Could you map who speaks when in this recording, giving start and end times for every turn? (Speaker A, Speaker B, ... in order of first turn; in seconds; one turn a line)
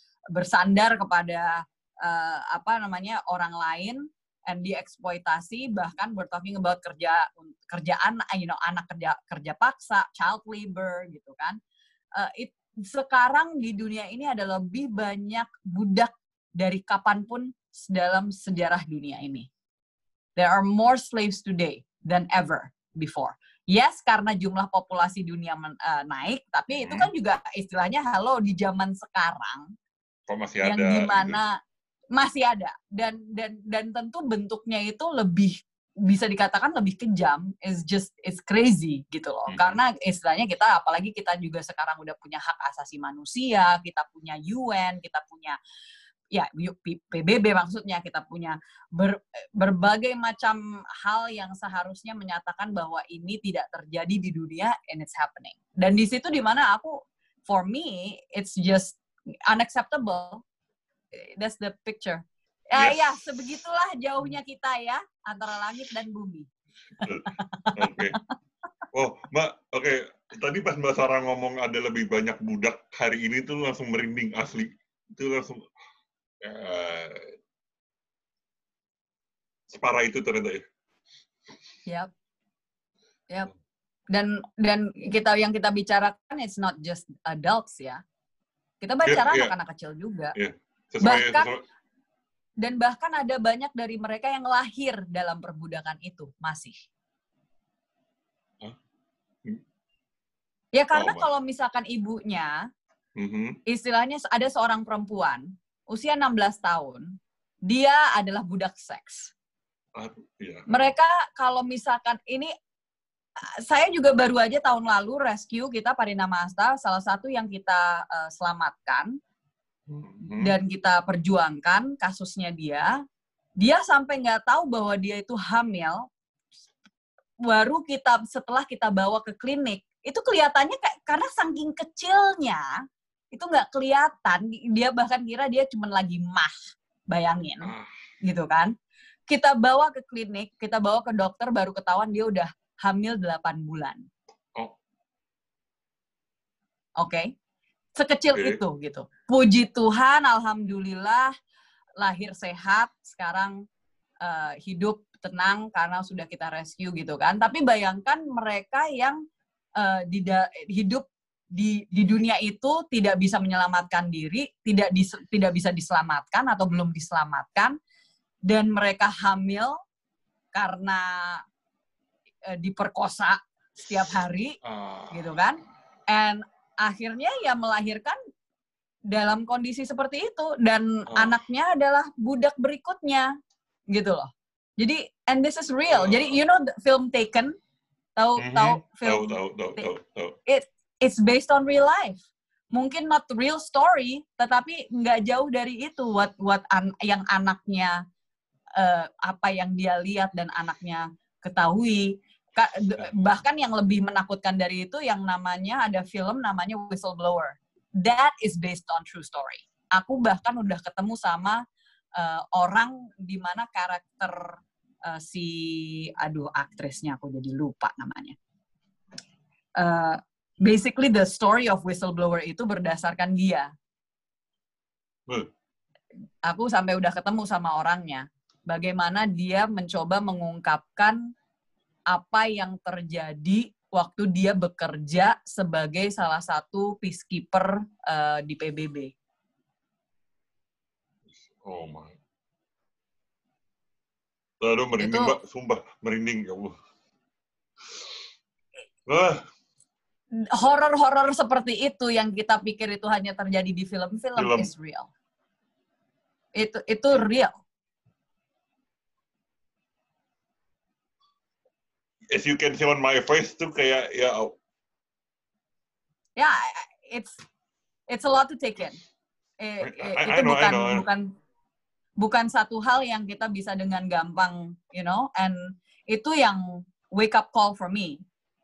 Speaker A: 0.3-11.6
Speaker A: 12.2-19.5
Speaker A: 20.4-29.7
Speaker B: 26.8-27.1
Speaker B: 30.3-31.4
Speaker A: 30.6-31.6
Speaker A: 32.1-45.6
Speaker B: 39.5-39.8
Speaker A: 46.3-59.0
Speaker A: 59.5-60.4
Speaker A: 61.2-66.5
Speaker B: 62.8-63.3
Speaker B: 67.0-68.2
Speaker A: 67.0-68.2
Speaker B: 68.9-75.7
Speaker B: 76.4-77.3
Speaker B: 79.7-80.7
Speaker A: 84.1-88.0
Speaker A: 88.8-90.3
Speaker B: 89.1-89.5
Speaker B: 90.3-91.6
Speaker A: 91.0-91.5
Speaker A: 92.6-96.8
Speaker A: 100.7-102.6
Speaker B: 100.9-101.3
Speaker B: 103.2-103.6
Speaker A: 103.7-107.1
Speaker A: 107.7-109.3
Speaker B: 110.0-110.9
Speaker A: 110.7-112.5
Speaker A: 113.6-119.2
Speaker B: 119.9-120.5
Speaker A: 120.2-123.0
Speaker A: 123.6-126.0
Speaker A: 127.4-132.7
Speaker A: 133.3-136.5
Speaker A: 137.1-138.7
Speaker B: 137.6-137.9
Speaker A: 139.3-144.1
Speaker A: 147.0-147.3
Speaker A: 148.0-151.3
Speaker B: 148.3-148.6
Speaker A: 152.0-153.5
Speaker A: 154.2-159.2
Speaker A: 159.8-167.8
Speaker A: 168.5-169.8
Speaker A: 170.5-171.4
Speaker A: 172.5-174.6
Speaker B: 174.6-175.4
Speaker A: 175.1-178.2
Speaker A: 179.1-183.3
Speaker B: 181.1-181.4
Speaker A: 183.9-187.5
Speaker B: 185.9-186.4
Speaker A: 188.2-189.8
Speaker B: 188.4-190.4
Speaker A: 190.5-192.2
Speaker A: 192.7-198.0
Speaker A: 198.8-211.6
Speaker A: 212.2-218.4
Speaker A: 219.8-223.7
Speaker A: 226.5-231.2
Speaker A: 232.1-239.1
Speaker B: 241.3-242.2
Speaker B: 244.6-246.8
Speaker A: 245.0-245.3
Speaker B: 249.1-249.4
Speaker A: 250.5-255.1
Speaker B: 254.4-254.7
Speaker A: 256.6-257.5
Speaker B: 262.3-264.6
Speaker A: 266.4-267.4
Speaker A: 268.1-269.0
Speaker A: 269.6-271.3
Speaker B: 269.8-271.1
Speaker A: 272.2-276.6
Speaker A: 277.1-278.2